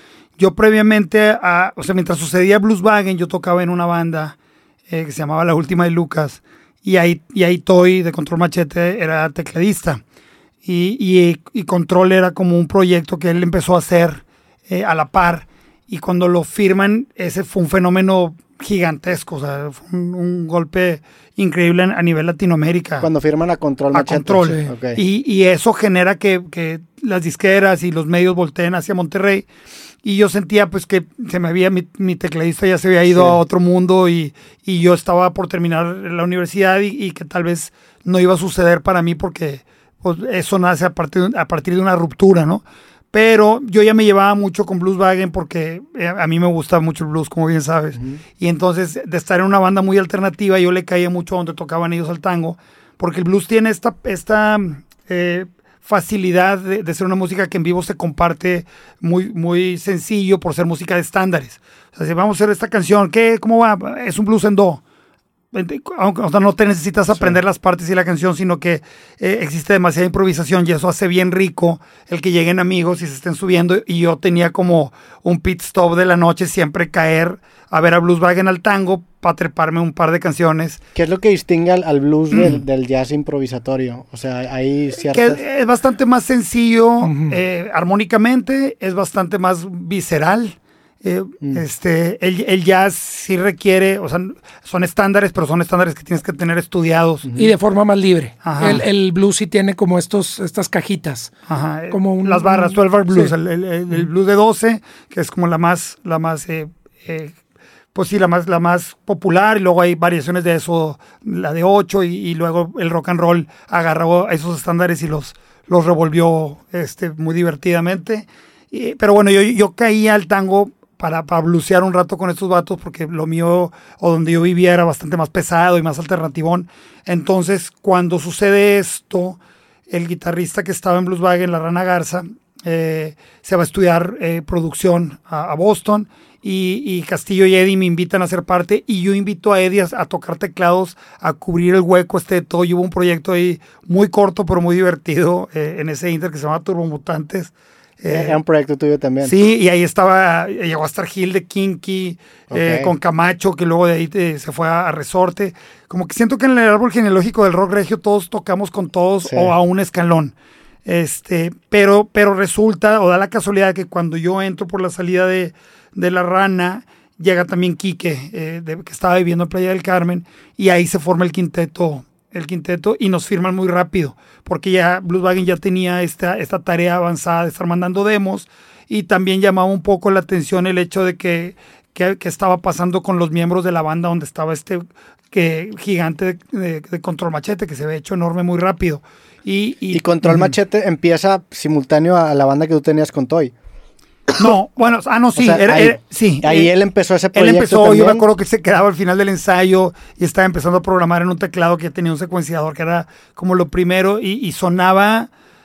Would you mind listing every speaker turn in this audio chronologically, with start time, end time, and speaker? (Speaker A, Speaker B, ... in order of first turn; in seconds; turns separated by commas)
Speaker A: 0.4-4.4, Speaker A: 4.9-10.0, Speaker A: 10.6-23.1, Speaker B: 23.0-25.0, Speaker A: 23.9-29.5, Speaker C: 24.4-24.7, Speaker A: 30.0-64.8, Speaker B: 33.1-33.4, Speaker A: 65.5-80.8, Speaker B: 81.0-85.4, Speaker A: 82.3-82.6, Speaker A: 85.1-97.3, Speaker C: 87.0-87.4, Speaker C: 97.3-101.3, Speaker A: 98.4-98.8, Speaker A: 101.5-107.3, Speaker C: 101.9-103.3, Speaker A: 107.9-148.4, Speaker B: 148.1-149.3, Speaker A: 149.2-160.3, Speaker B: 152.5-152.9, Speaker B: 159.2-159.5, Speaker A: 160.9-190.5, Speaker B: 189.9-193.5, Speaker A: 194.4-196.7, Speaker B: 195.3-198.3, Speaker A: 197.3-205.3